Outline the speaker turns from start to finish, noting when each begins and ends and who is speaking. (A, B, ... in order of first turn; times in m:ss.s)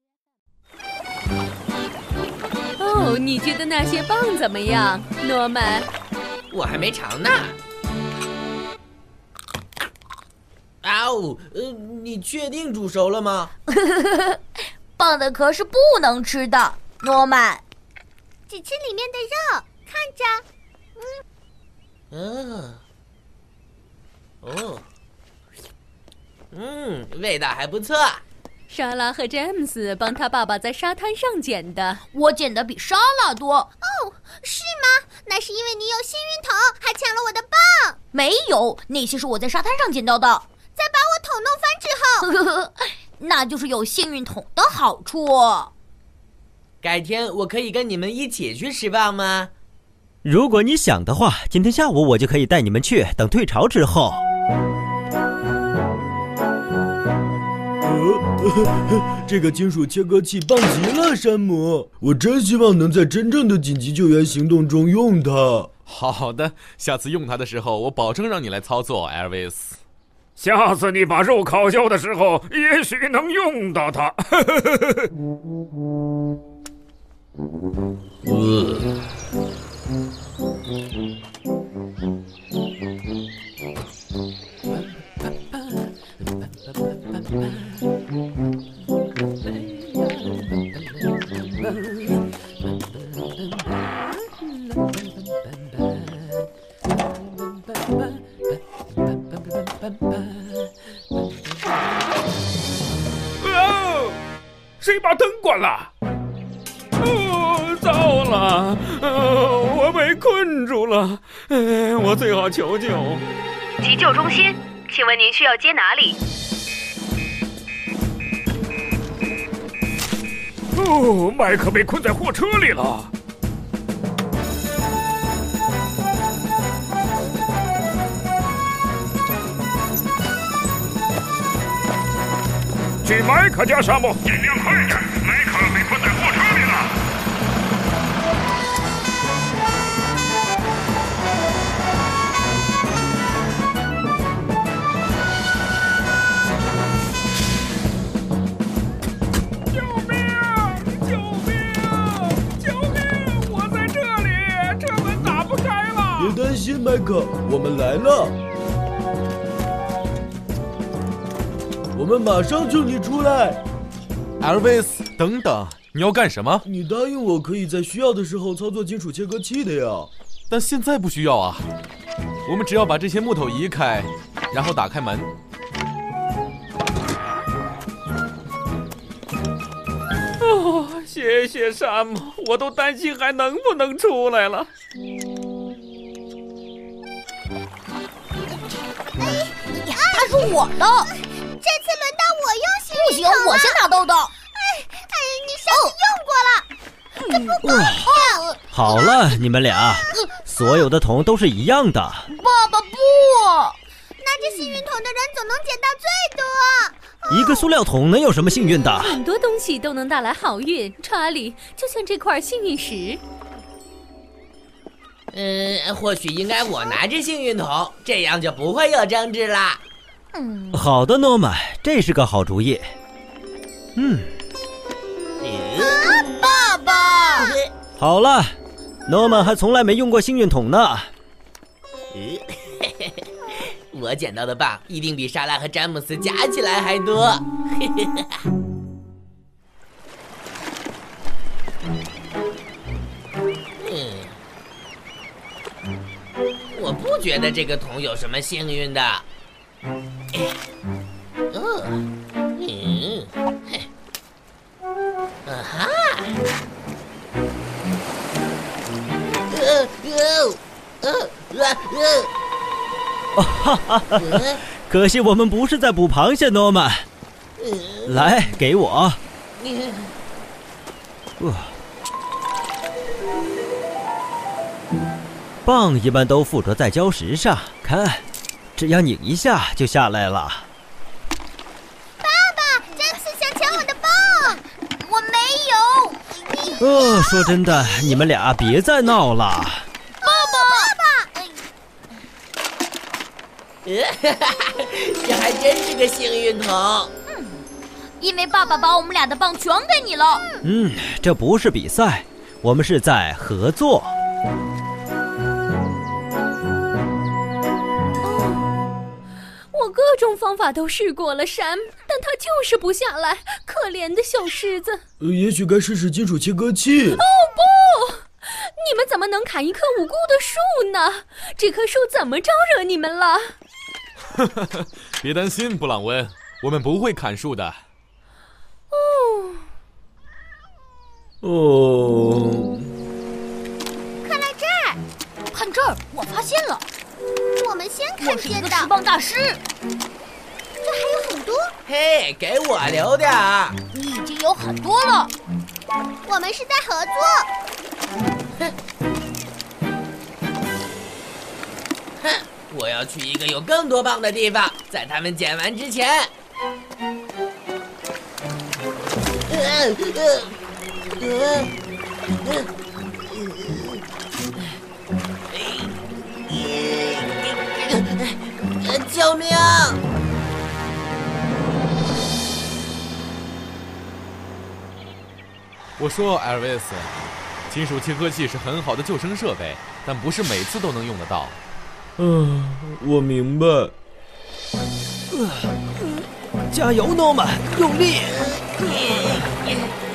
0:02.8-0:05.9 A
0:06.5-0:07.6 B
0:10.8-0:13.5 B
0:13.7-0:14.4 C
0:15.0-0:17.6 C
0:18.5-0:20.4 D
0:22.1-0:22.8 B
0:24.4-0:24.8 B
0:26.5-0:28.2 B
0:28.7-0:32.0 A
0:32.1-0:33.7 C
0:33.9-0:38.0 D
0:38.1-0:40.4 C
0:40.8-0:42.2 D
0:42.2-0:45.7 C
0:46.8-0:49.5 B
0:50.2-0:54.2 E
0:57.8-1:05.7 F
1:05.9-1:09.8 G
1:10.4-1:15.0 H
1:18.2-1:18.9 B
1:43.4-1:44.1 H
1:44.8-1:45.9 H
1:47.0-1:53.2 H
1:53.8-1:56.2 I
2:00.8-2:03.1 H
2:13.0-2:16.8 H
2:29.7-2:36.3 H
2:36.2-2:38.3 F
2:41.9-2:43.6 F
2:44.4-2:46.6 G
2:46.6-2:50.1 F
2:50.5-2:51.6 G
2:52.4-2:55.3 G
3:00.5-3:04.7 H
3:09.2-3:11.1 C
3:11.6-3:13.8 D
3:12.9-3:14.3 C
3:14.5-3:16.7 D
3:15.7-3:15.9 C
3:17.2-3:18.6 C
3:17.6-3:18.1 E
3:18.7-3:22.3 E
3:22.3-3:23.8 C
3:24.2-3:26.9 D
3:24.4-3:24.8 C
3:27.3-3:29.2 E
3:29.0-3:33.2 A
3:35.3-3:39.8 B
3:40.3-3:40.7 C
3:40.7-3:42.9 E
3:44.0-3:44.3 E
3:45.4-3:46.0 B
3:46.0-3:47.5 C
3:48.0-3:48.6 E
3:49.1-3:51.1 E
3:52.1-3:53.1 B
3:53.9-3:58.3 B
4:03.8-4:04.3 B
4:06.7-4:09.2 B
4:11.5-4:12.0 B
4:12.6-4:13.8 B
4:15.4-4:16.1 B
4:19.5-4:22.3 B
4:23.3-4:27.0 E
4:24.2-4:24.6 B
4:27.6-4:28.3 B
4:28.0-4:29.2 E
4:29.6-4:30.1 B
4:31.4-4:31.7 E
4:35.6-4:38.2 E
4:38.8-4:40.7 E
4:42.2-4:44.6 D
4:45.0-4:46.8 C
4:46.8-4:49.9 E
4:50.2-4:51.0 C
4:50.2-4:51.2 D
4:53.8-4:57.1 B
4:57.3-4:57.6 C
4:58.2-5:00.4 C
5:00.6-5:04.1 E
5:08.2-5:08.6 A
5:09.7-5:15.0 A
5:15.2-5:17.2 F
5:17.2-5:23.5 A
5:24.4-5:27.8 G
5:28.9-5:29.6 A
5:31.4-5:32.8 F
5:34.2-5:35.0 D
5:35.5-5:36.8 C
5:37.6-5:38.9 D
5:38.2-5:39.6 C
5:40.8-5:41.6 D
5:41.8-5:43.7 B
5:43.9-5:45.3 C
5:46.3-5:47.4 D
5:52.2-5:56.2 B
5:59.5-6:00.5 B
6:01.2-6:01.7 B
6:03.3-6:04.0 B
6:05.5-6:05.9 B
6:06.5-6:10.0 B
6:16.0-6:21.6 G
6:22.2-6:23.9 F
6:25.3-6:25.7 E
6:26.7-6:28.5 E
6:28.6-6:29.9 B